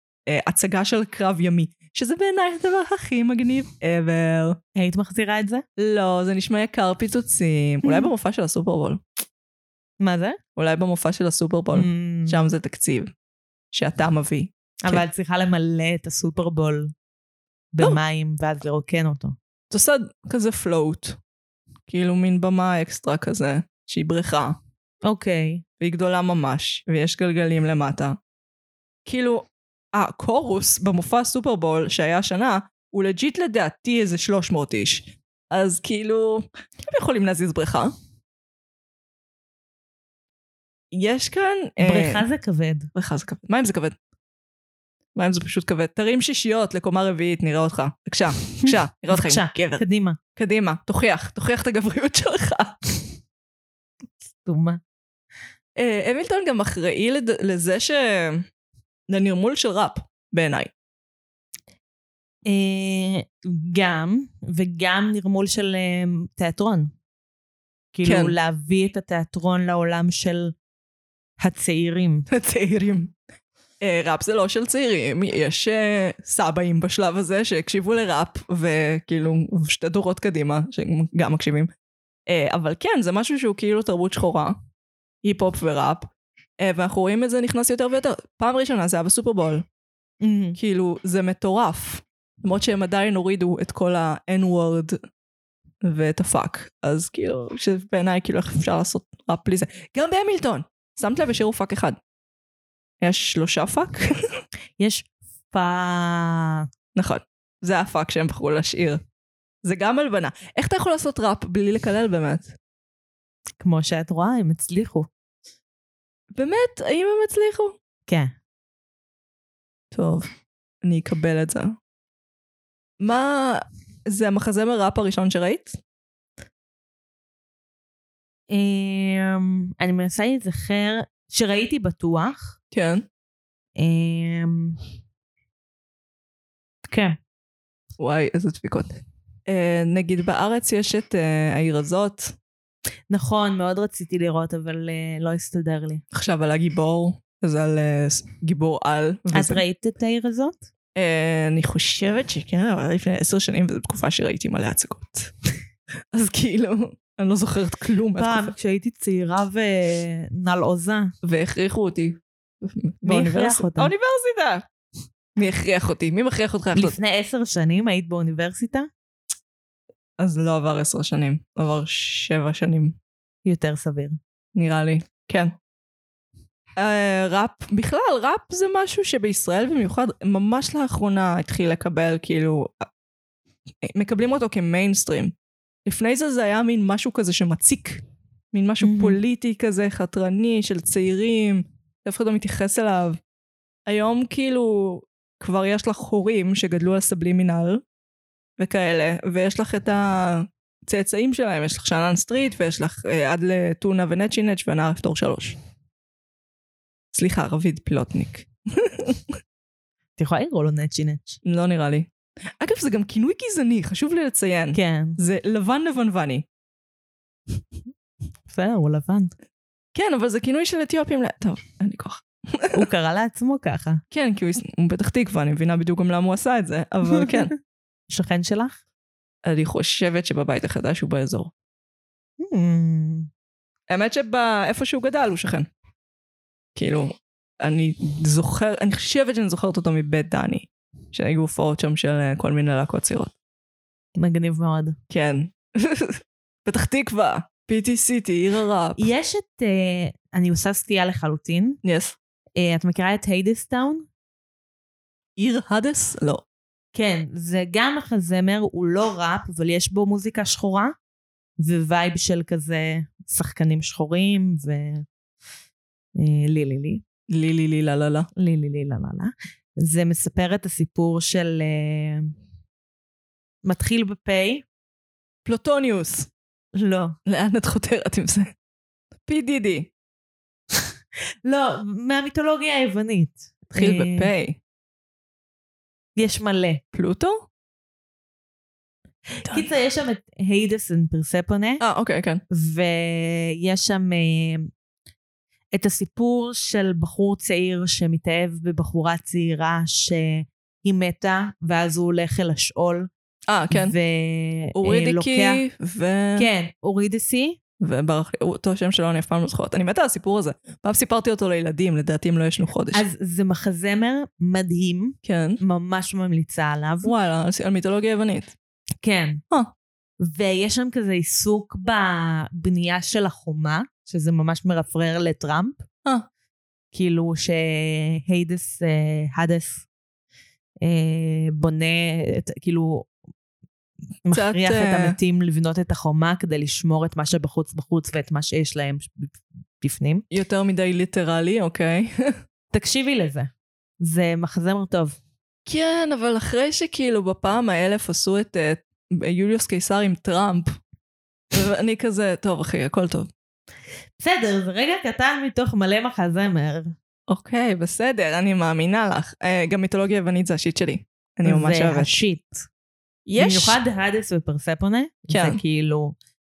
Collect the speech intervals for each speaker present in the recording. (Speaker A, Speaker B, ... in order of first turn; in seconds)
Speaker A: 0.3-4.6, 5.8-9.0, 10.6-13.1, 13.7-15.0, 19.7-21.2, 21.9-24.6, 25.8-28.2, 29.1-37.9, 40.9-42.2, 42.9-43.9, 45.1-49.8, 50.4-52.8, 55.8-58.4, 59.1-60.7, 68.0-68.3, 72.3-73.1, 73.8-81.7, 82.3-84.6, 85.2-89.6, 90.6-95.0, 95.8-102.0, 103.0-104.1, 106.9-109.0, 109.6-112.5, 116.3-117.8, 119.9-120.3, 120.8-121.8, 123.0-125.8, 132.7-133.1, 138.0-142.3, 146.1-149.6, 150.9-155.3, 156.1-158.5, 161.2-164.6, 165.3-167.0, 170.2-172.9, 174.5-175.5, 176.8-182.9, 183.8-185.3, 185.8-193.2, 193.9-197.8, 198.6-205.6, 207.1-209.2, 211.4-212.1, 212.6-216.4, 219.9-222.8, 224.1-227.5, 229.4-231.5, 233.9-235.7, 236.8-243.3, 245.1-249.1, 251.8-252.2, 255.4-256.4, 267.3-268.3, 275.4-276.3, 277.2-278.5, 279.3-279.9, 283.7-284.6, 286.9-287.5, 291.8-292.4, 303.5-303.9, 304.8-306.5, 307.8-313.0, 315.2-315.6, 317.0-318.5, 334.3-335.2, 340.3-342.3, 345.7-350.8, 351.5-353.3, 357.3-362.2, 363.3-363.8, 365.3-365.6
Speaker B: 4.7-5.6, 10.0-10.4, 11.7-12.4, 14.8-16.9, 17.7-19.4, 25.0-25.6, 41.8-42.9, 48.6-50.2, 54.3-54.8, 62.5-66.9, 67.9-70.5, 71.4-72.3, 90.2-90.6, 104.8-106.7, 113.6-115.1, 118.1-118.3, 128.5-132.5, 133.8-134.8, 136.9-137.2, 143.1-146.0, 149.3-150.6, 158.2-161.1, 163.0-163.9, 166.7-168.9, 173.4-174.2, 188.8-189.2, 210.2-211.4, 214.7-215.2, 218.5-219.3, 222.7-224.0, 227.2-227.4, 228.1-228.8, 232.4-233.3, 244.2-245.0, 249.0-251.8, 252.6-254.1, 256.9-260.9, 261.6-265.1, 266.1-267.0, 268.4-272.3, 273.6-274.6, 276.7-277.2, 281.4-284.3, 286.1-286.8, 289.4-291.8, 292.5-294.7, 295.7-303.1, 303.7-305.6, 306.4-307.6, 312.9-317.1, 319.0-319.4, 320.2-325.8, 326.9-329.8, 330.8-333.1, 334.2-340.2, 342.7-345.2, 354.2-356.9, 361.4-362.6, 363.4-366.1